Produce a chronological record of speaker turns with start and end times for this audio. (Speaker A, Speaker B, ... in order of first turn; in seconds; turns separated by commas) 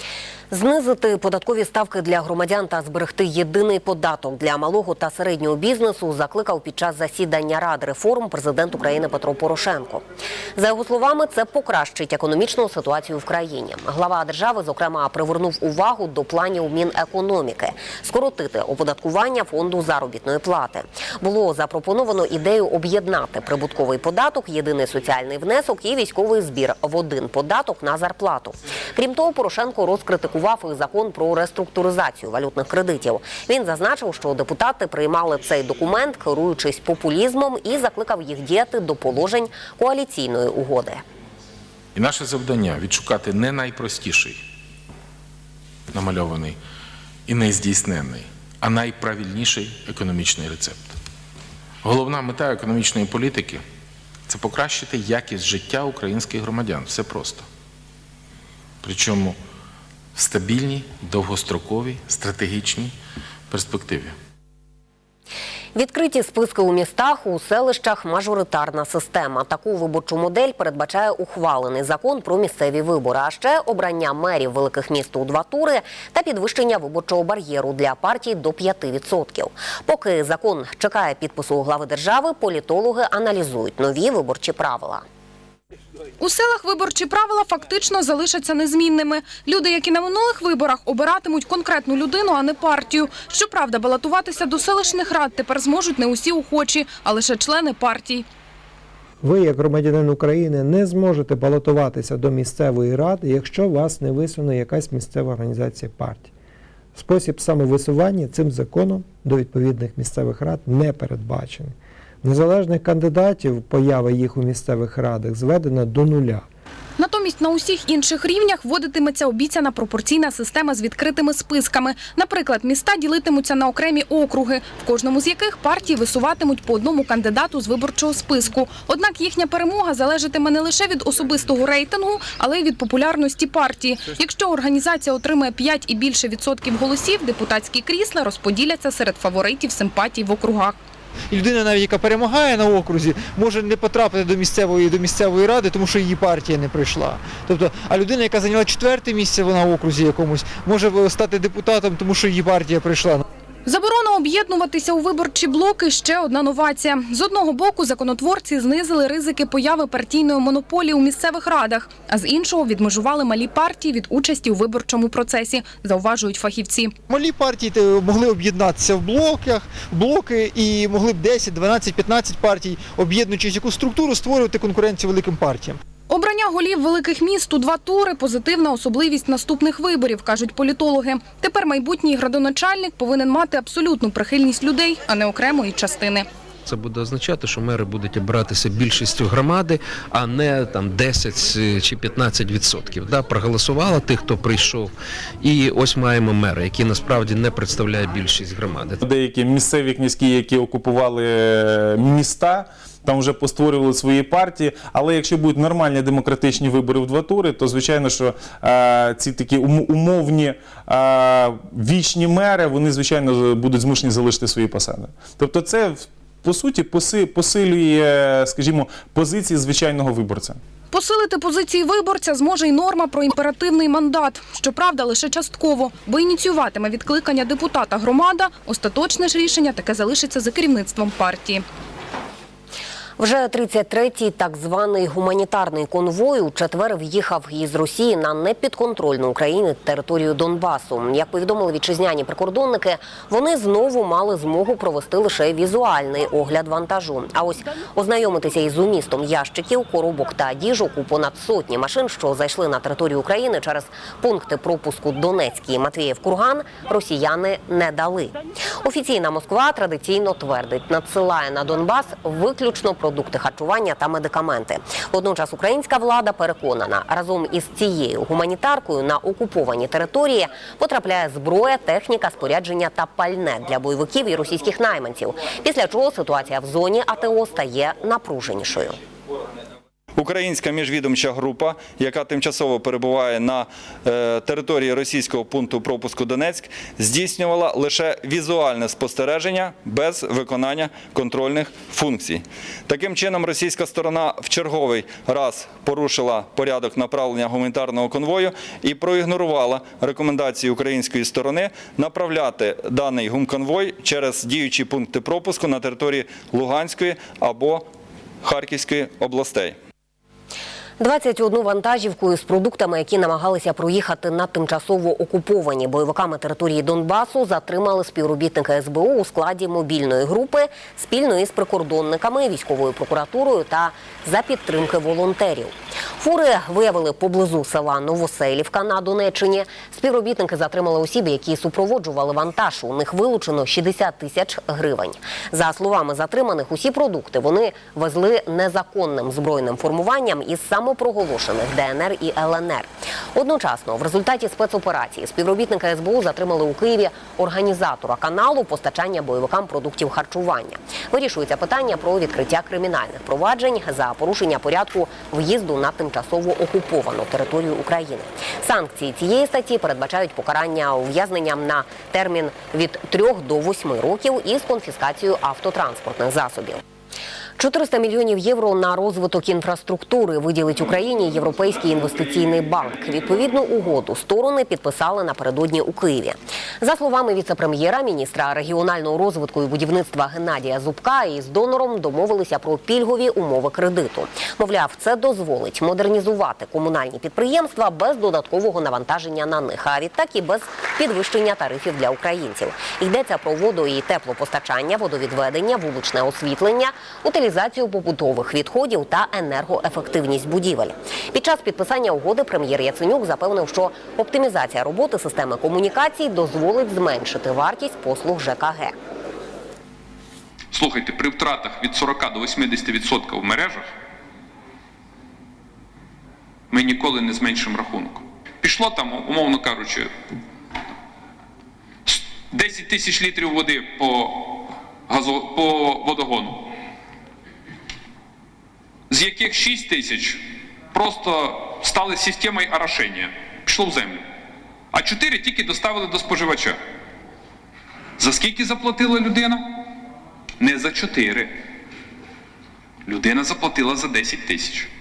Speaker A: 0.5-10.0, Speaker A: 10.6-41.0, Speaker B: 41.9-44.4, Speaker B: 45.9-46.6, Speaker B: 47.3-51.0, Speaker B: 51.8-53.6, Speaker B: 54.3-57.5, Speaker B: 58.8-59.4, Speaker B: 60.1-63.0, Speaker B: 63.5-64.2, Speaker A: 65.7-85.0, Speaker C: 86.2-98.2, Speaker D: 99.2-106.3, Speaker D: 106.9-116.5, Speaker C: 117.0-140.8, Speaker E: 141.3-153.2, Speaker C: 153.7-166.9, Speaker E: 167.1-175.8, Speaker C: 176.1-186.2, Speaker F: 186.7-199.0, Speaker G: 199.0-220.6, Speaker C: 220.9-231.6, Speaker A: 233.2-279.0, Speaker H: 280.2-307.9, Speaker H: 308.4-309.8, Speaker A: 311.0-366.8, Speaker A: 367.6-408.9, Speaker I: 410.7-413.9, Speaker I: 416.7-420.1, Speaker I: 422.1-426.7, Speaker I: 429.1-434.2, Speaker I: 434.9-436.8, Speaker I: 438.2-439.7, Speaker I: 440.6-441.5, Speaker I: 443.1-444.9